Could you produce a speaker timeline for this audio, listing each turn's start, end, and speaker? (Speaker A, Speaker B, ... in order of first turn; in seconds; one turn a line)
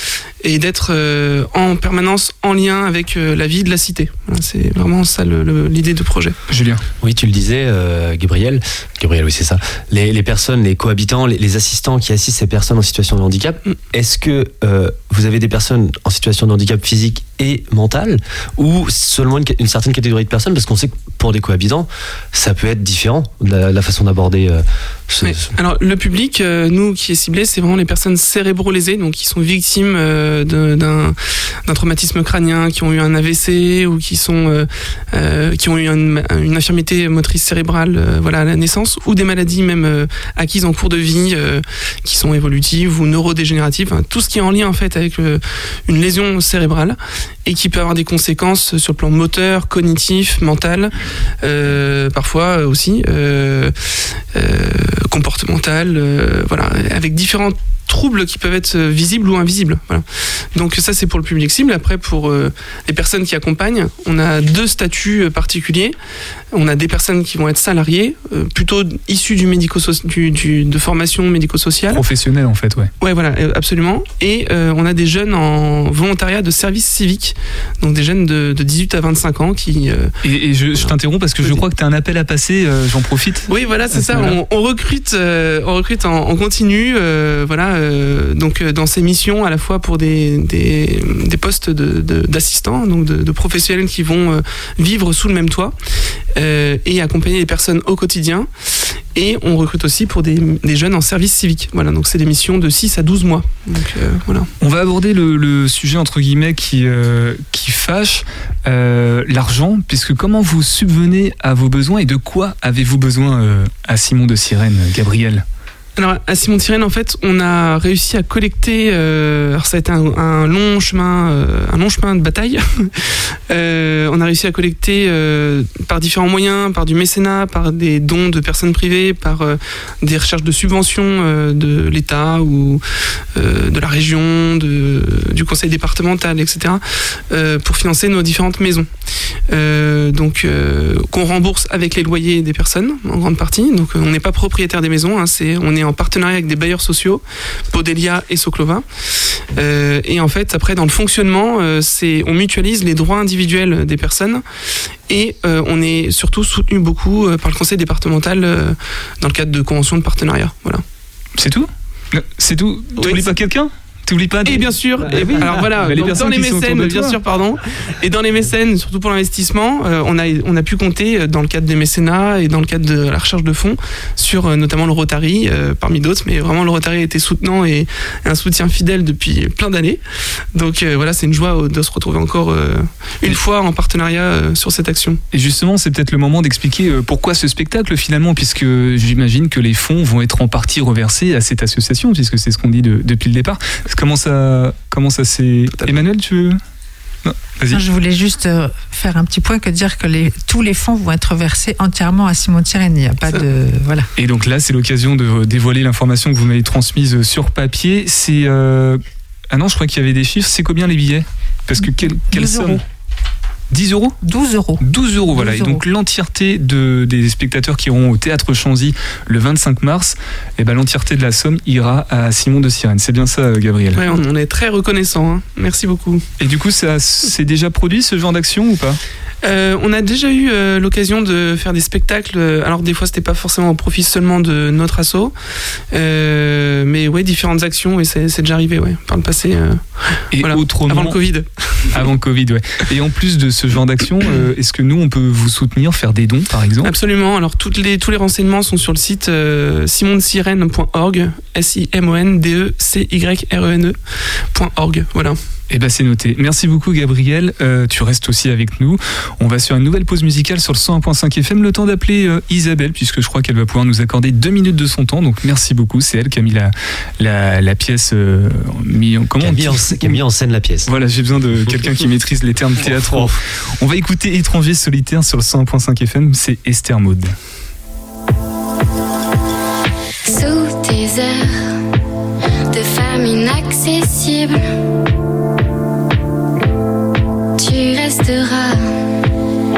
Speaker A: 0.4-6.4
Speaker B: 6.5-6.8
Speaker C: 7.0-25.5
Speaker A: 25.2-53.7
Speaker A: 54.3-66.0
Speaker A: 66.5-72.0
Speaker B: 71.9-72.9
Speaker A: 73.0-80.1
Speaker B: 80.2-84.4
Speaker A: 83.5-95.8
Speaker A: 96.3-98.5
Speaker A: 99.1-104.5
Speaker B: 104.6-115.5
Speaker A: 116.0-132.8
Speaker A: 133.3-138.9
Speaker A: 139.5-148.8
Speaker A: 149.5-154.4
Speaker A: 155.1-160.8
Speaker B: 161.4-167.2
Speaker A: 163.0-163.3
Speaker A: 164.4-180.0
Speaker A: 180.5-185.2
Speaker B: 185.3-196.6
Speaker B: 197.2-197.8
Speaker D: 197.7-204.1
Speaker B: 204.2-212.8
Speaker D: 211.8-212.8
Speaker B: 213.7-214.2
Speaker D: 214.2-215.8
Speaker B: 214.8-224.2
Speaker A: 223.9-226.2
Speaker B: 226.4-229.0
Speaker A: 229.4-235.3
Speaker A: 235.9-242.0
Speaker B: 240.3-241.2
Speaker B: 241.9-246.9
Speaker A: 246.8-255.4
Speaker B: 255.7-270.2
Speaker C: 269.4-270.9
Speaker B: 270.9-277.4
Speaker E: 280.3-281.6
Speaker E: 282.7-284.6
Speaker E: 287.6-288.9